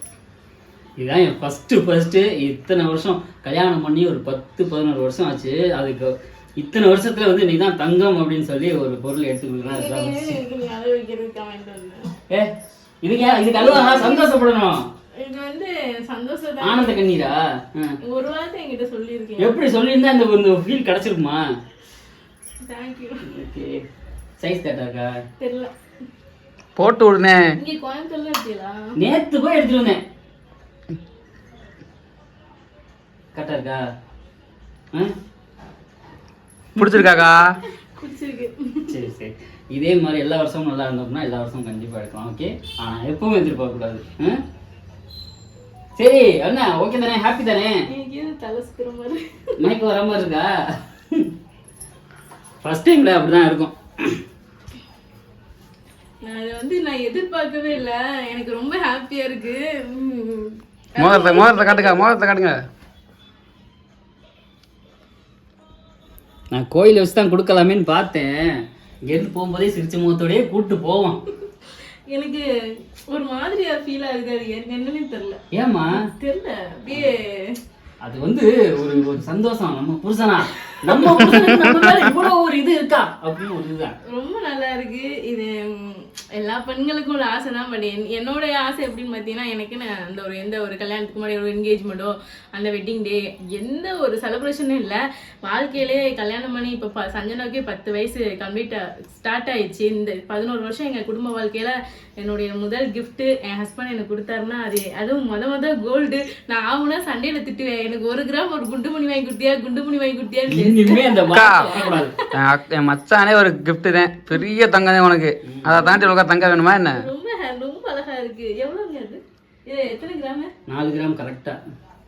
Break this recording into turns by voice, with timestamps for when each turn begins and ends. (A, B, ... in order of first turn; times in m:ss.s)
0:01.0-0:10.4 A
0:09.7-0:12.1 B
0:12.3-0:14.9 A
0:13.2-0:14.4 B
0:15.2-0:17.0 B
0:16.6-0:18.0 A
0:18.0-0:19.6 B
0:19.4-0:21.4 A
0:22.6-0:23.2 B
0:23.2-0:23.8 A
0:24.4-0:25.2 A
0:25.4-0:25.7 B
0:26.8-0:27.5 C
0:27.6-0:28.9 B
0:29.0-0:30.0 A
0:33.4-0:33.8 A
0:36.8-0:37.6 C
0:36.8-0:37.4 B
0:38.0-0:39.0 B
0:38.9-0:44.4 A
0:46.0-0:47.8 A
0:47.9-0:49.7 B
0:49.6-0:50.5 A
0:52.6-0:54.2 A
0:56.2-1:02.0 B
1:01.0-1:02.6 C
1:06.5-1:11.2 A
1:12.1-1:12.5 B
1:13.1-1:15.4 B
1:15.5-1:16.0 A
1:15.9-1:17.6 B
1:18.0-1:24.0 A
1:20.6-1:21.3 B
1:24.1-1:52.4 B
1:50.5-1:52.2 A
1:51.3-1:57.1 C
1:55.4-1:56.0 A
1:56.9-2:00.5 B
2:00.7-2:01.6 A